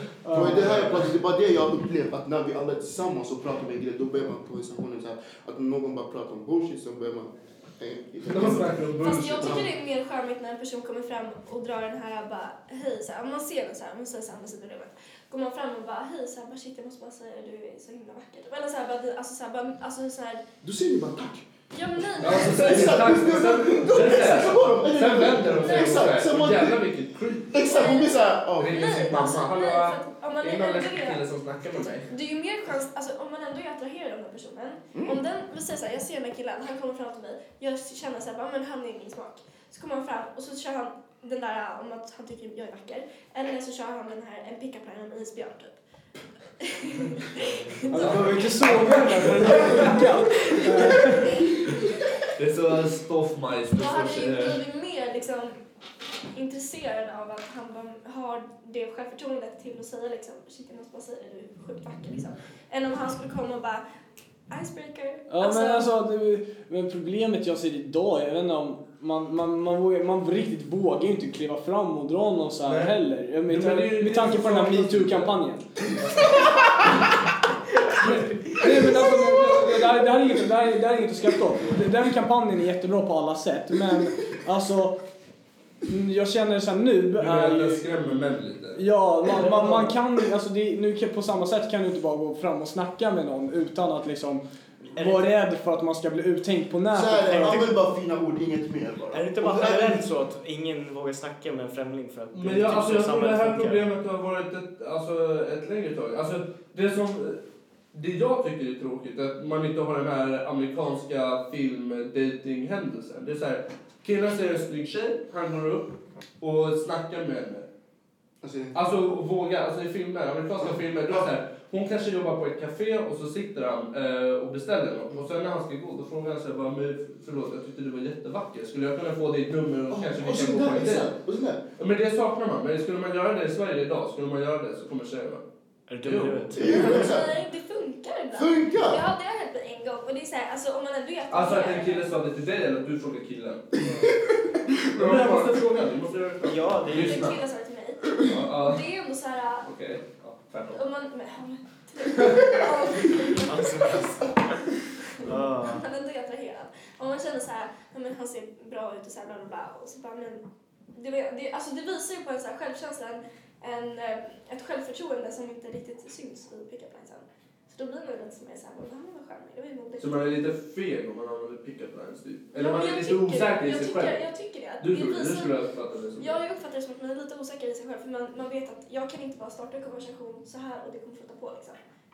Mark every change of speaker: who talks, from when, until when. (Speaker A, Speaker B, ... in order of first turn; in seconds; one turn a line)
Speaker A: 0.2-1.1
Speaker B: 0.3-8.9
Speaker C: 8.2-9.7
Speaker D: 9.0-20.4
Speaker B: 9.4-9.7
Speaker B: 20.6-26.8
Speaker D: 21.7-23.1
Speaker C: 22.2-27.8
Speaker D: 25.4-26.2
Speaker B: 27.5-28.8
Speaker D: 27.7-31.2
Speaker C: 28.6-32.1
Speaker D: 32.1-45.8
Speaker B: 34.9-35.2
Speaker D: 46.6-48.6
Speaker A: 47.9-51.4
Speaker C: 47.9-50.2
Speaker D: 50.2-51.6
Speaker C: 52.4-54.6
Speaker D: 53.7-55.5
Speaker D: 56.3-63.8
Speaker D: 64.5-65.9
Speaker A: 65.3-75.9
Speaker C: 72.7-75.4
Speaker E: 78.0-78.6
Speaker A: 78.0-85.0
Speaker D: 79.1-79.5
Speaker A: 85.8-87.8
Speaker C: 87.2-88.8
Speaker A: 88.8-97.7
Speaker E: 89.5-89.8
Speaker E: 94.9-95.2
Speaker B: 96.9-100.1
Speaker E: 99.1-103.8
Speaker C: 102.3-107.4
Speaker C: 107.9-117.7
Speaker B: 118.4-118.8
Speaker C: 118.7-131.1
Speaker B: 129.9-131.6
Speaker C: 131.8-135.4
Speaker E: 135.9-137.1
Speaker C: 136.0-136.7
Speaker B: 136.5-137.4
Speaker D: 136.7-142.1
Speaker B: 138.3-139.0
Speaker C: 141.3-143.7
Speaker B: 143.7-145.5
Speaker E: 143.8-144.1
Speaker C: 144.9-147.4
Speaker E: 146.4-147.4
Speaker D: 146.9-149.7
Speaker C: 148.2-148.8
Speaker C: 149.6-150.8
Speaker D: 150.7-154.1
Speaker E: 153.4-154.5
Speaker E: 155.2-155.8
Speaker D: 155.2-170.3
Speaker C: 170.0-174.2
Speaker D: 172.5-175.5
Speaker C: 174.8-176.4
Speaker D: 176.2-181.8